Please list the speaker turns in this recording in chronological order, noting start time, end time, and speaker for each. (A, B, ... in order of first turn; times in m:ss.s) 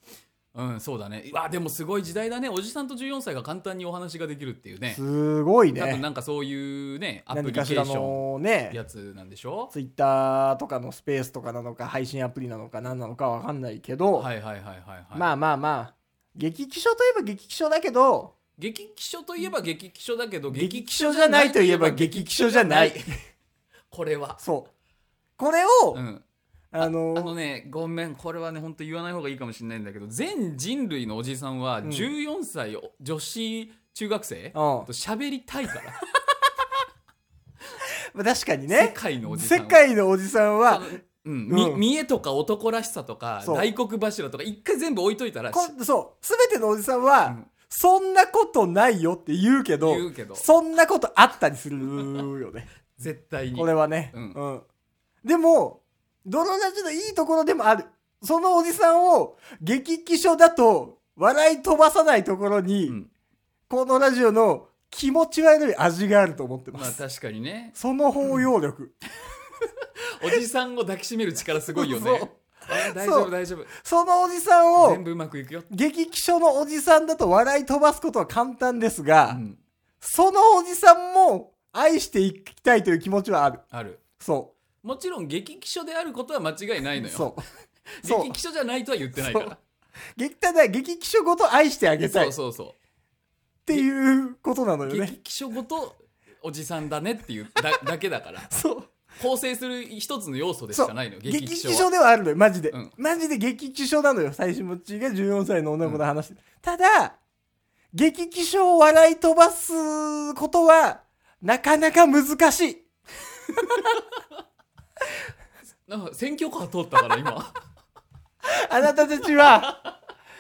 0:00.5-0:05.0 A
0:04.9-0:06.0 B
0:05.7-0:09.7 A
0:07.3-0:08.8 B
0:09.7-0:14.3 B
0:14.1-0:15.3 A
0:15.1-0:18.3 B
0:18.6-0:23.1 A
0:20.5-0:23.1 B
0:23.9-0:24.4 A
0:24.4-0:24.7 B
0:25.4-0:26.0 B
0:25.9-0:26.2 A
0:26.7-0:27.3 B
0:26.8-0:36.0 A
0:31.8-0:32.1 B
0:34.5-0:34.9 B
0:38.1-0:40.9 B
0:38.7-0:39.8 A
0:40.7-0:45.7 A
0:41.5-0:41.8 B
0:45.5-0:52.7 B
0:49.8-0:50.4 A
0:53.0-0:54.4 A
0:53.6-0:54.6 B
0:55.2-1:03.0 B
1:03.7-1:07.0 B
1:06.7-1:08.4 A
1:07.7-1:09.0 B
1:09.6-1:13.7 A
1:11.7-1:15.0 B
1:14.8-1:15.7 A
1:15.7-1:19.4 B
1:19.3-1:19.6 A
1:20.0-1:23.6 B
1:23.7-1:24.0 A
1:24.2-1:24.5 B
1:24.8-1:27.3 A
1:27.0-1:27.4 B
1:28.0-1:29.6 A
1:28.0-1:28.4 B
1:29.2-1:29.5 B
1:30.2-1:32.3 B
1:32.1-1:32.7 A
1:33.6-1:35.1 B
1:34.8-1:38.5 A
1:38.5-1:38.9 B
1:39.2-1:41.9 A
1:40.7-1:47.2 B
1:47.9-1:52.8 B
1:53.6-1:54.0 A
1:55.9-1:57.6 A
1:58.4-1:59.8 B